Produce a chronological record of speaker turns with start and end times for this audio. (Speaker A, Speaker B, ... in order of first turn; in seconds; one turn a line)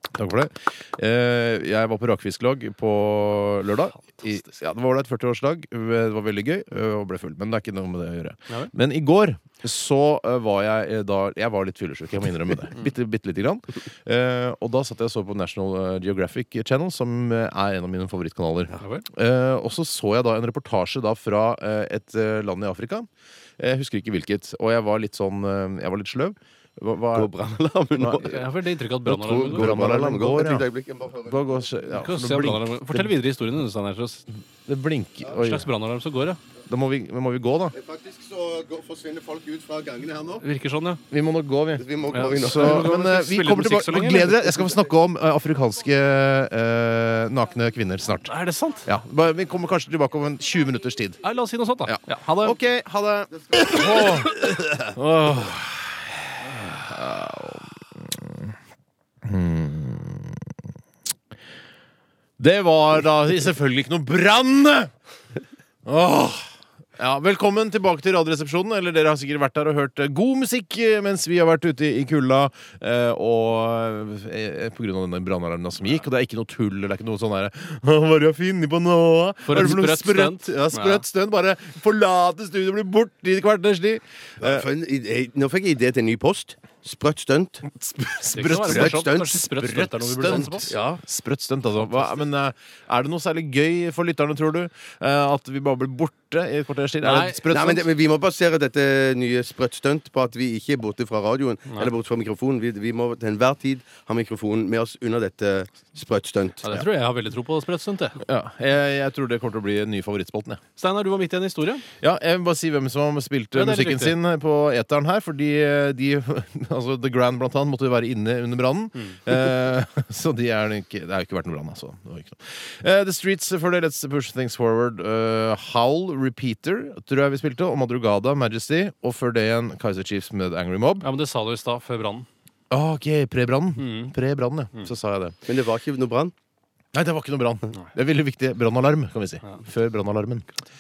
Speaker A: 0.1-23.1
Speaker B: 18.8-19.1
Speaker A: 23.6-27.3
Speaker C: 27.1-28.4
Speaker B: 28.1-29.8
Speaker C: 29.1-31.6
Speaker A: 29.5-30.7
Speaker A: 31.3-33.1
Speaker B: 31.9-34.2
Speaker A: 34.7-35.7
Speaker B: 35.3-36.4
Speaker A: 36.7-37.8
Speaker C: 37.7-40.4
Speaker B: 40.4-41.0
Speaker A: 41.1-48.3
Speaker C: 41.8-42.9
Speaker B: 42.1-44.4
Speaker B: 48.2-48.9
Speaker A: 48.9-51.2
Speaker B: 51.2-52.6
Speaker A: 51.8-58.5
Speaker A: 59.2-60.4
Speaker A: 62.4-64.9
Speaker A: 65.8-84.6
Speaker B: 79.5-81.0
Speaker C: 84.4-87.7
Speaker A: 87.7-97.8
Speaker B: 88.3-90.7
Speaker C: 88.6-89.4
Speaker C: 90.3-91.0
Speaker B: 97.0-97.4
Speaker C: 97.5-106.7
Speaker B: 106.6-108.2
Speaker A: 108.2-110.6
Speaker B: 110.8-111.8
Speaker A: 112.0-131.1
Speaker B: 113.5-114.2
Speaker B: 131.0-132.3
Speaker A: 132.7-135.4
Speaker B: 133.8-134.1
Speaker C: 135.5-136.3
Speaker A: 136.9-140.5